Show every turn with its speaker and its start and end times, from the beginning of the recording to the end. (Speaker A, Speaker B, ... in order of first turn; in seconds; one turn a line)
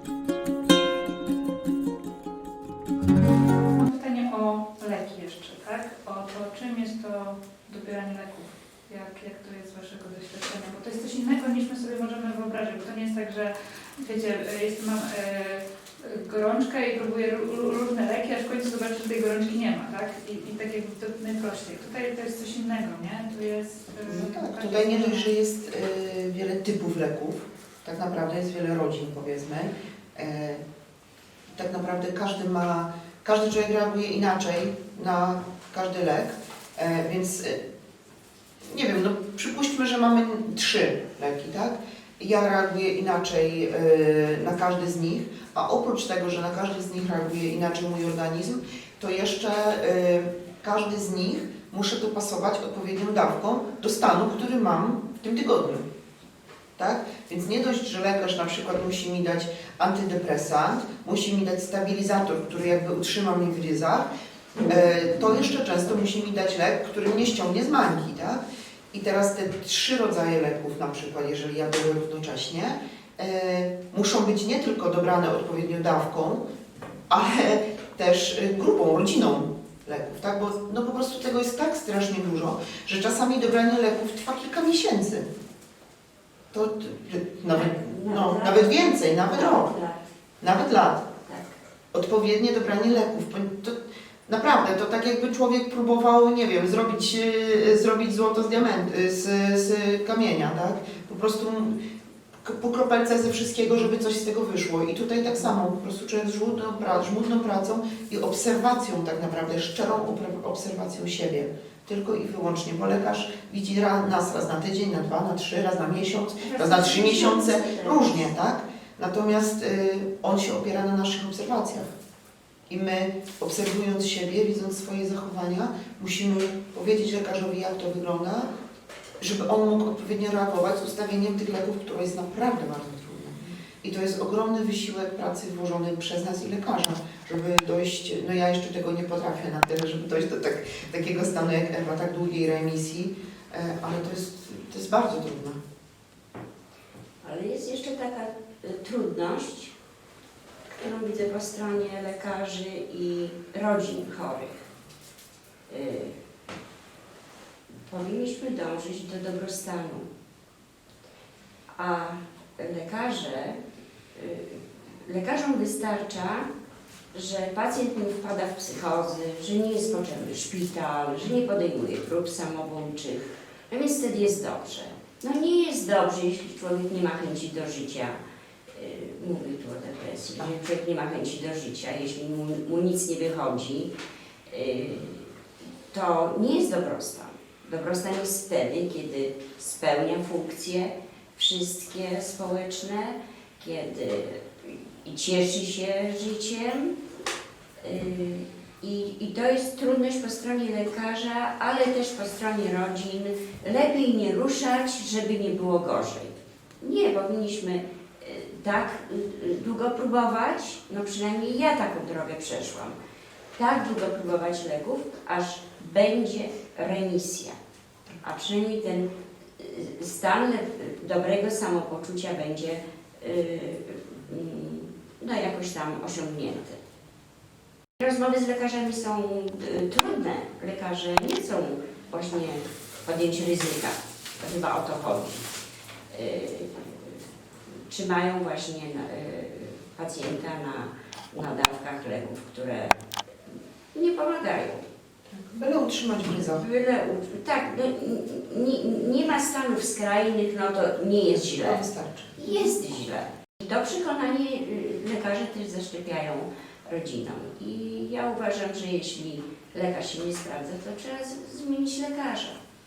Speaker A: 3.7-25.3
Speaker B: 24.0-30.6
Speaker B: 31.5-37.6
Speaker B: 38.6-55.9
Speaker B: 56.8-76.5
Speaker B: 77.1-85.3
Speaker B: 86.5-89.7
Speaker C: 87.5-90.0
Speaker B: 90.4-91.1
Speaker C: 91.2-91.5
Speaker B: 91.9-101.8
Speaker B: 102.4-121.9
Speaker C: 116.4-118.2
Speaker B: 122.7-128.5
Speaker B: 129.2-145.6
Speaker C: 147.2-149.8
Speaker C: 150.7-154.7
Speaker C: 155.7-156.2
Speaker C: 157.9-160.1
Speaker C: 161.8-163.6
Speaker C: 164.1-166.5
Speaker C: 167.1-183.9
Speaker C: 184.5-185.3
Speaker C: 185.9-197.0
Speaker C: 197.8-212.9
Speaker C: 213.6-217.6
Speaker C: 218.2-226.8
Speaker C: 228.0-235.5
Speaker C: 236.1-237.2
Speaker C: 237.9-242.9
Speaker C: 243.9-244.8
Speaker B: 245.3-246.6
Speaker C: 246.4-251.8
Speaker B: 251.3-252.3
Speaker C: 252.3-262.6